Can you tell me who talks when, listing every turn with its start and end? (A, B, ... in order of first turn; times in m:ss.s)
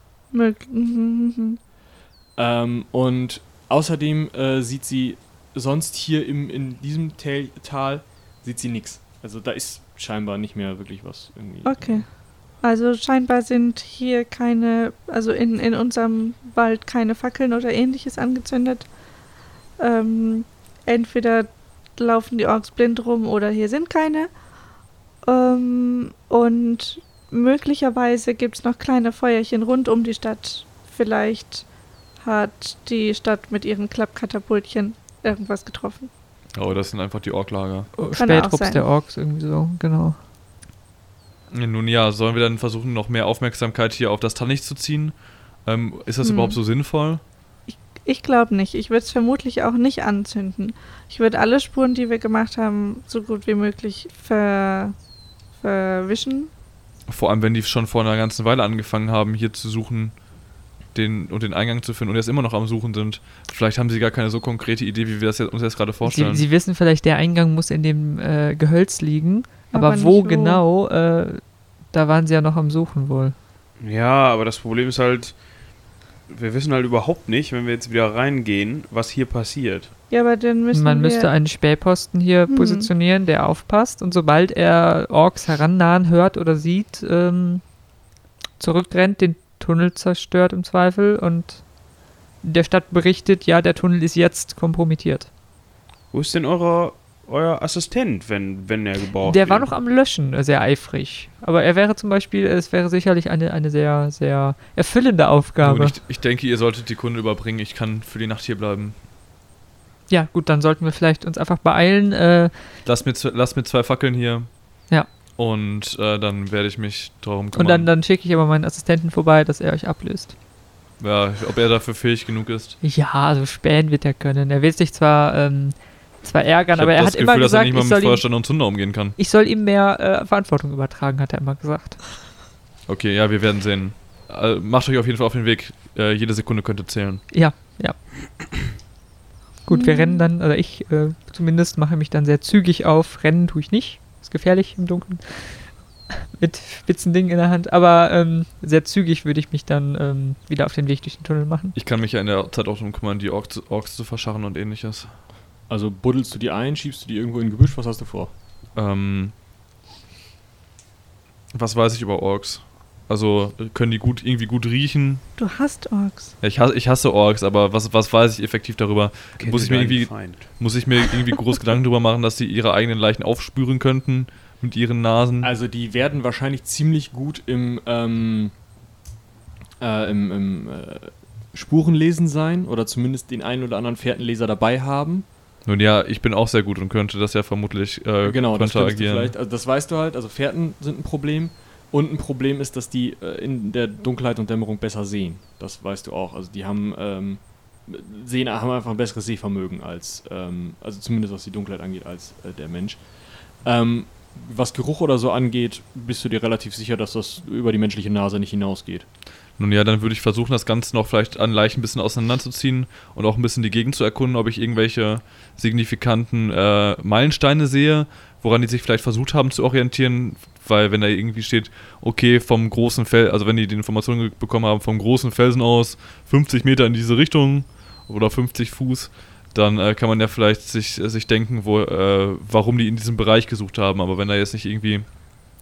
0:00.3-0:01.6 A
0:02.4-0:12.0 B
0:11.6-0:18.9 A
0:19.8-0:24.3 A
0:25.2-0:31.7 A
0:32.2-0:36.1 A
0:36.5-0:37.9 C
0:38.0-0:40.2 D
0:38.0-0:38.8 A
0:41.5-0:47.2 C
0:46.2-0:46.6 A
0:47.7-0:54.9 A
0:55.6-0:56.5 A
0:57.1-1:00.2 C
1:00.9-1:06.4 C
1:06.0-1:13.3 D
1:09.7-1:10.6 A
1:13.8-1:15.4 E
1:16.3-1:19.9 E
1:20.1-1:21.3 A
1:20.7-1:27.6 D
1:22.5-1:22.9 A
1:28.6-1:31.6 D
1:32.4-1:35.3 D
1:36.1-1:39.7 E
1:39.2-1:46.0 D
1:45.6-1:48.9 C
1:50.1-1:52.5 D
1:52.8-1:54.5 C
1:55.4-1:57.9 C
1:57.5-2:00.3 D
2:01.0-2:02.8 C
2:02.8-2:08.5 D
2:06.7-2:09.2 C
2:09.2-2:12.0 D
2:12.9-2:17.2 C
2:17.3-2:18.0 D
2:19.6-2:31.8 D
2:19.7-2:20.3 A
2:31.7-2:35.1 C
2:35.7-2:38.3 B
2:38.8-2:39.3 C
2:41.5-2:45.2 C
2:45.4-2:46.3 A
2:46.4-2:55.5 C
2:49.4-2:50.5 E
2:55.4-2:58.5 B
2:59.8-3:05.2 B
3:05.6-3:09.3 C
3:08.2-3:23.0 B
3:23.6-3:29.0 B
3:29.6-3:55.1 C